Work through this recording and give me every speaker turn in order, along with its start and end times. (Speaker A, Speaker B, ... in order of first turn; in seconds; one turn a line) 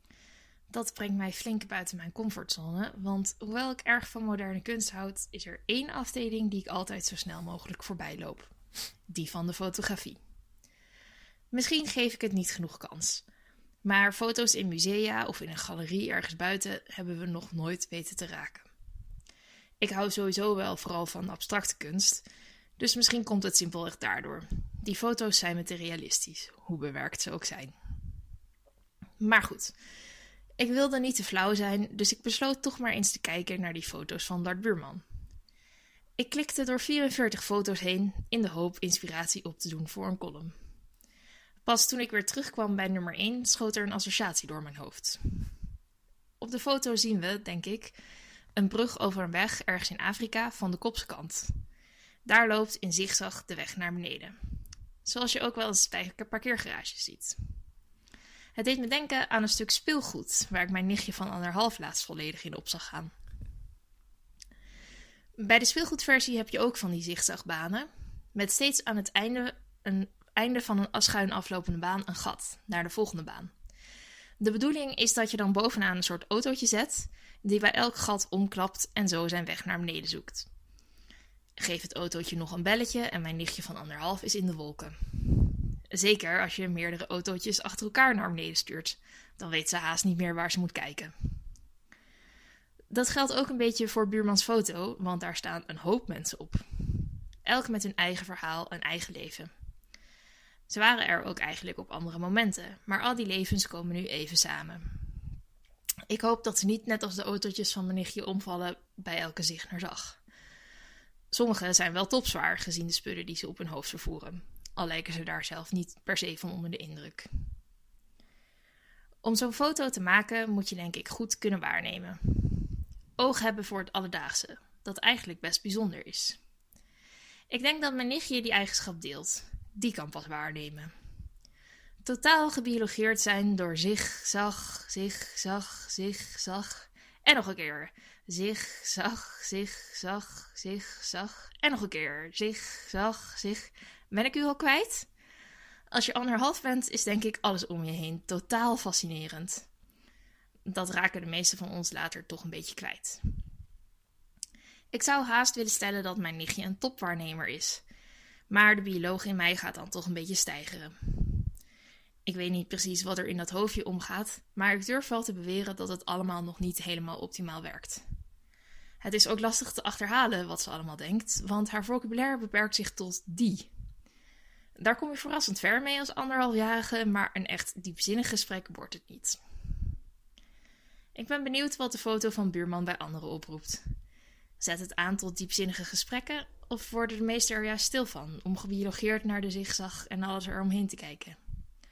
Speaker A: 0.7-8.5
Speaker A: 9.1-10.2
Speaker A: 11.5-13.2
Speaker A: 13.8-18.7
Speaker A: 19.8-22.2
Speaker A: 22.8-27.7
Speaker A: 29.2-29.7
Speaker A: 30.6-35.0
Speaker A: 36.2-40.5
Speaker A: 41.6-45.2
Speaker A: 46.4-48.0
Speaker A: 48.6-51.5
Speaker A: 52.3-54.4
Speaker A: 55.0-57.4
Speaker A: 58.6-63.1
Speaker A: 65.4-73.5
Speaker A: 74.4-80.5
Speaker A: 81.6-91.1
Speaker A: 92.9-99.5
Speaker A: 100.7-105.0
Speaker A: 106.1-110.2
Speaker A: 111.3-117.3
Speaker A: 119.2-126.4
Speaker A: 127.5-130.9
Speaker A: 132.0-145.1
Speaker A: 145.9-149.7
Speaker A: 150.7-153.2
Speaker A: 154.9-157.8
Speaker A: 158.5-161.5
Speaker A: 162.3-168.0
Speaker A: 169.0-173.7
Speaker A: 174.8-179.4
Speaker A: 181.2-183.8
Speaker A: 184.6-191.4